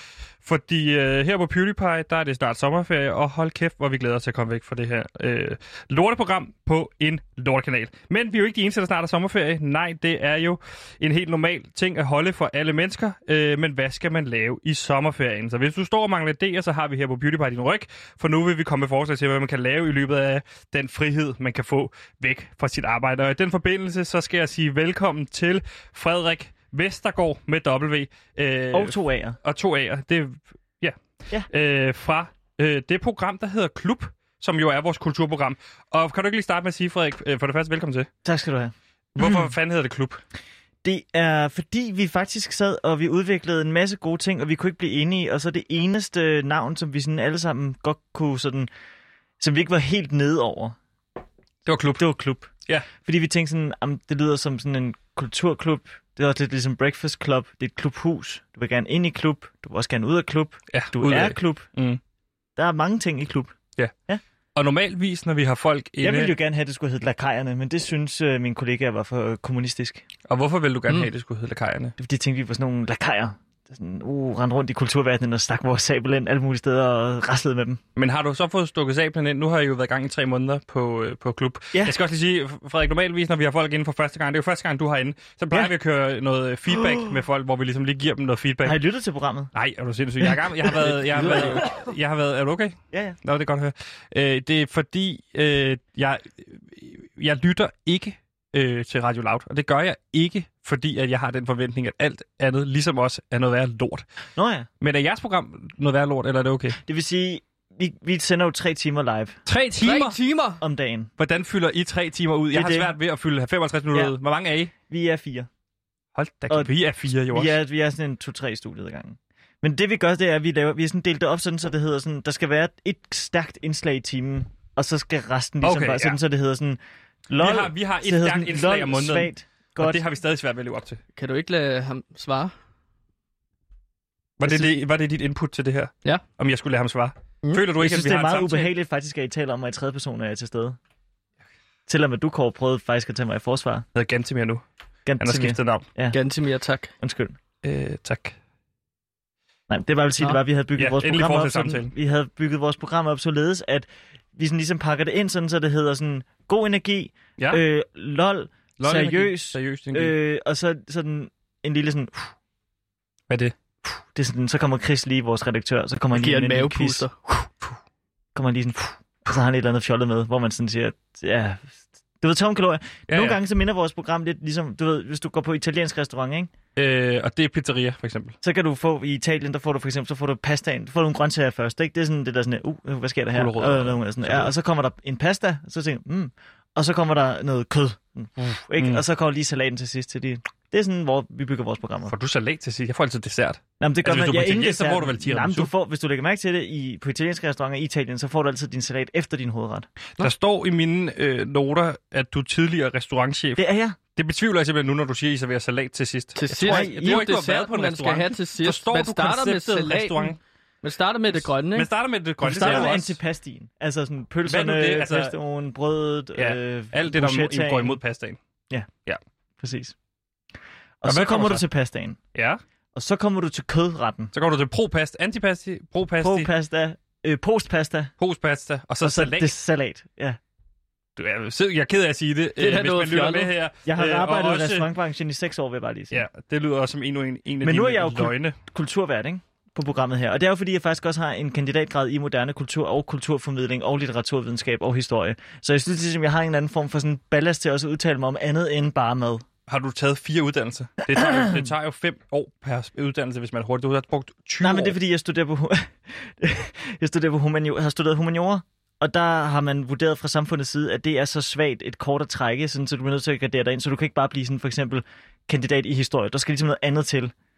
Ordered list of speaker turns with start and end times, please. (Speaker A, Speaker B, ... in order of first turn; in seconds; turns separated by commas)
Speaker A: 0.4-38.1, Speaker B: 28.7-29.4, Speaker B: 38.2-39.5, Speaker A: 39.2-40.2, Speaker B: 40.8-48.7, Speaker B: 49.4-50.8, Speaker A: 51.6-52.0, Speaker B: 52.0-52.5, Speaker B: 53.0-61.7, Speaker A: 60.7-62.0, Speaker B: 62.6-63.5, Speaker A: 64.5-66.3, Speaker B: 66.0-70.0, Speaker A: 70.3-71.9, Speaker B: 72.0-77.8, Speaker A: 78.0-88.8, Speaker B: 86.7-87.2, Speaker B: 88.6-89.5, Speaker A: 89.5-104.0, Speaker B: 90.2-91.9, Speaker B: 92.9-93.2, Speaker B: 104.3-104.7, Speaker A: 104.8-106.8, Speaker B: 106.8-109.4, Speaker A: 109.5-110.2, Speaker C: 109.8-110.6, Speaker B: 110.6-111.1, Speaker A: 111.2-114.7, Speaker B: 112.5-112.9, Speaker B: 114.9-115.5, Speaker A: 116.1-117.5, Speaker B: 117.3-126.8, Speaker A: 125.6-126.2, Speaker B: 127.3-130.0, Speaker A: 127.4-131.0, Speaker C: 131.2-132.5, Speaker A: 134.4-138.7, Speaker B: 134.4-134.7, Speaker B: 137.8-140.8, Speaker B: 141.9-143.8, Speaker A: 143.9-144.6, Speaker B: 145.1-146.2, Speaker A: 145.2-145.8, Speaker C: 146.1-146.9, Speaker B: 147.0-147.4, Speaker A: 147.6-148.3, Speaker B: 149.7-162.3, Speaker A: 150.8-151.9, Speaker A: 158.8-160.1, Speaker B: 163.9-167.1, Speaker C: 166.1-167.2, Speaker B: 168.3-176.5, Speaker A: 173.1-173.4, Speaker A: 176.8-178.3, Speaker B: 178.4-192.1, Speaker A: 183.3-184.5, Speaker A: 188.8-189.0, Speaker A: 192.1-195.7, Speaker B: 193.8-200.3, Speaker A: 200.2-203.6, Speaker B: 203.6-204.0, Speaker A: 204.2-210.4, Speaker C: 206.4-211.9, Speaker B: 206.6-207.3, Speaker A: 211.7-213.2, Speaker B: 212.4-218.0, Speaker A: 214.5-215.3, Speaker A: 216.3-218.4, Speaker B: 219.6-219.9, Speaker B: 221.0-222.2, Speaker A: 221.0-221.6, Speaker A: 222.3-222.6, Speaker B: 222.9-224.3, Speaker A: 224.3-226.5, Speaker B: 226.2-228.1, Speaker A: 228.2-229.5, Speaker B: 229.0-230.4, Speaker A: 231.2-234.8, Speaker C: 232.6-233.5, Speaker B: 233.8-236.2, Speaker A: 236.1-238.5, Speaker B: 237.6-249.4, Speaker A: 249.7-254.9, Speaker B: 251.1-251.7, Speaker B: 254.6-267.3